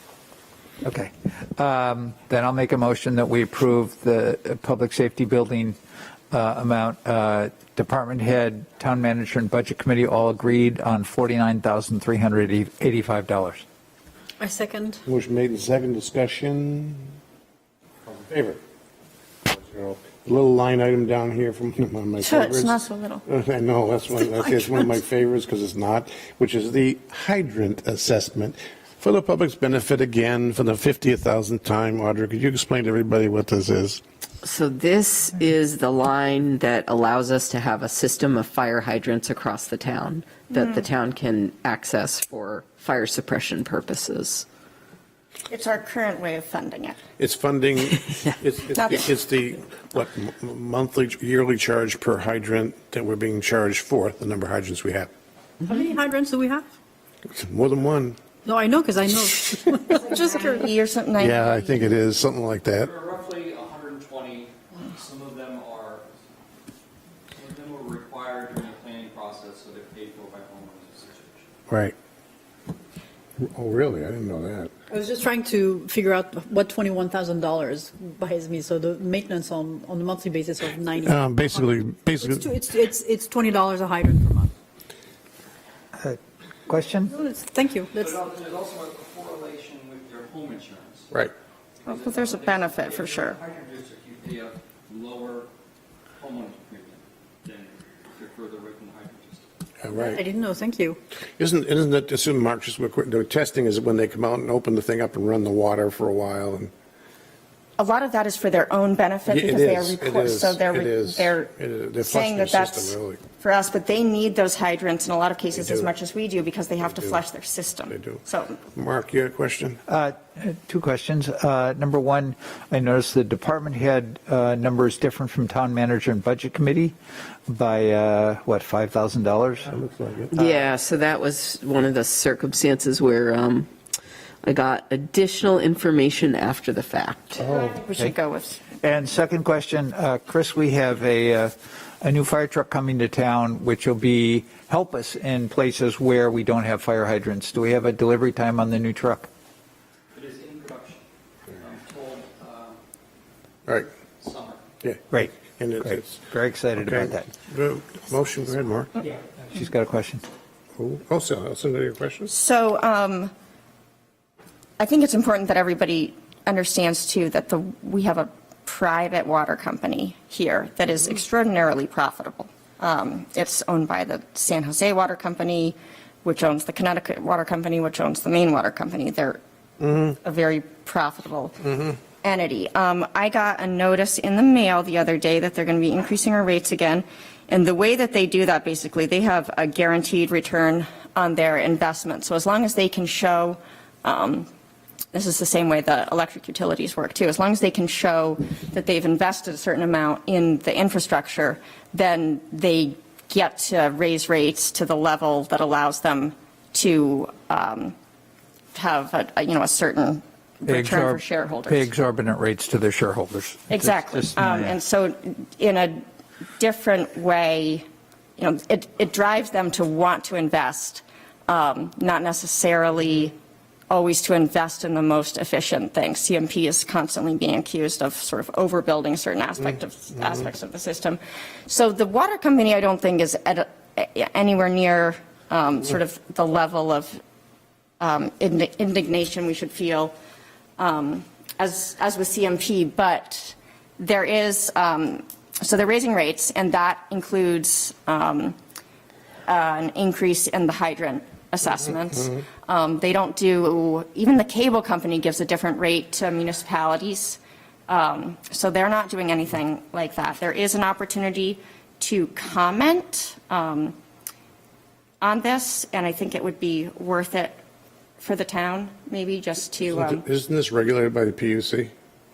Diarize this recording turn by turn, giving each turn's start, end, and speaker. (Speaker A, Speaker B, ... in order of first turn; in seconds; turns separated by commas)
Speaker A: 0.8-5.8, Speaker A: 6.3-13.6, Speaker B: 14.4-15.0, Speaker C: 15.1-17.1, Speaker C: 18.1-18.6, Speaker C: 19.4-34.0, Speaker D: 22.2-23.2, Speaker E: 34.4-44.5, Speaker D: 40.5-40.9, Speaker D: 45.5-47.0, Speaker C: 47.2-55.1, Speaker D: 48.7-49.0, Speaker B: 55.6-56.7, Speaker C: 57.3-58.2, Speaker B: 58.4-60.7, Speaker D: 60.0-61.8, Speaker C: 61.2-62.9, Speaker F: 62.8-66.0, Speaker F: 67.3-71.4, Speaker C: 71.7-71.9, Speaker C: 73.4-74.7, Speaker B: 74.9-84.5, Speaker C: 81.0-82.5, Speaker A: 86.0-87.1, Speaker B: 87.1-88.2, Speaker F: 88.0-91.1, Speaker F: 91.8-95.5, Speaker D: 91.8-93.4, Speaker F: 96.2-99.4, Speaker C: 99.8-100.2, Speaker B: 99.9-101.0, Speaker C: 101.4-106.7, Speaker D: 107.8-111.5, Speaker C: 109.2-113.2, Speaker D: 112.0-118.6, Speaker C: 115.5-115.9, Speaker C: 116.8-117.2, Speaker C: 117.9-119.8, Speaker A: 119.9-127.0, Speaker A: 127.5-129.7, Speaker C: 129.7-130.7, Speaker E: 130.3-133.7, Speaker E: 134.4-137.4, Speaker D: 137.3-138.6, Speaker C: 137.4-137.8, Speaker A: 138.8-149.3, Speaker F: 150.1-151.0, Speaker F: 151.6-152.8, Speaker F: 154.2-154.6, Speaker C: 154.8-156.2, Speaker A: 155.1-157.3, Speaker C: 156.8-158.9, Speaker A: 159.5-160.2, Speaker C: 160.8-162.3, Speaker D: 162.3-163.3, Speaker D: 164.8-179.4, Speaker C: 179.8-180.2, Speaker D: 180.2-181.6, Speaker C: 181.7-182.0, Speaker D: 182.1-194.5, Speaker D: 195.1-207.9, Speaker D: 208.7-211.9, Speaker A: 210.7-214.8, Speaker D: 213.7-216.0, Speaker D: 216.6-217.8, Speaker D: 218.4-223.3, Speaker D: 223.9-237.2, Speaker D: 238.0-240.1, Speaker D: 240.8-248.6, Speaker D: 249.5-263.9, Speaker D: 265.2-267.6, Speaker D: 268.2-270.2, Speaker C: 269.9-271.9